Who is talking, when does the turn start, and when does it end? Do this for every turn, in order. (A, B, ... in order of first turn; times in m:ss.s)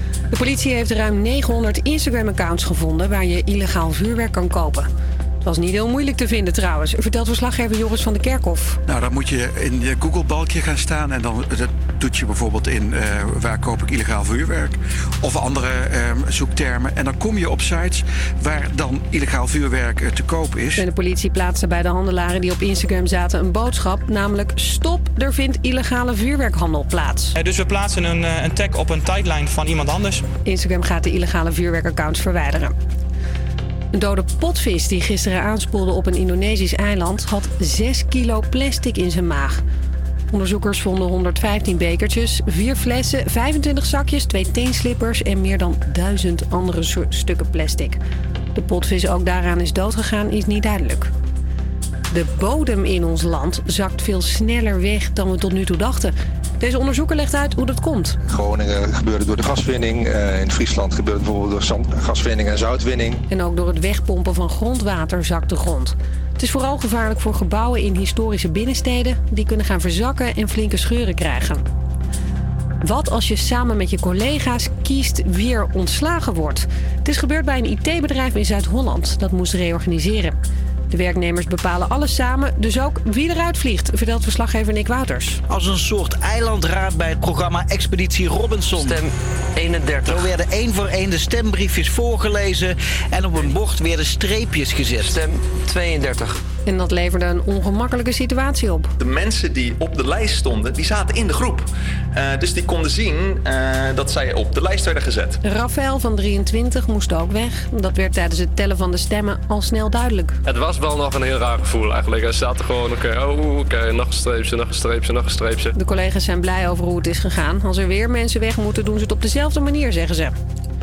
0:00.3-0:04.9 A
0:05.4-0:08.8 A
0:08.9-0:20.8 B
0:20.8-0:27.3 A
0:27.3-0:30.2 C
0:30.4-0:32.7 A
0:33.9-0:39.6 A
0:40.3-0:48.0 A
0:48.5-0:51.1 A
0:52.1-0:58.2 A
0:58.3-1:03.2 D
1:03.3-1:11.6 A
1:12.8-1:20.4 A
1:20.9-1:25.4 A
1:25.5-1:36.4 E
1:36.7-1:38.9 A
1:39.0-1:45.4 F
1:45.4-1:50.4 A
1:50.4-1:55.7 G
1:55.7-2:00.3 A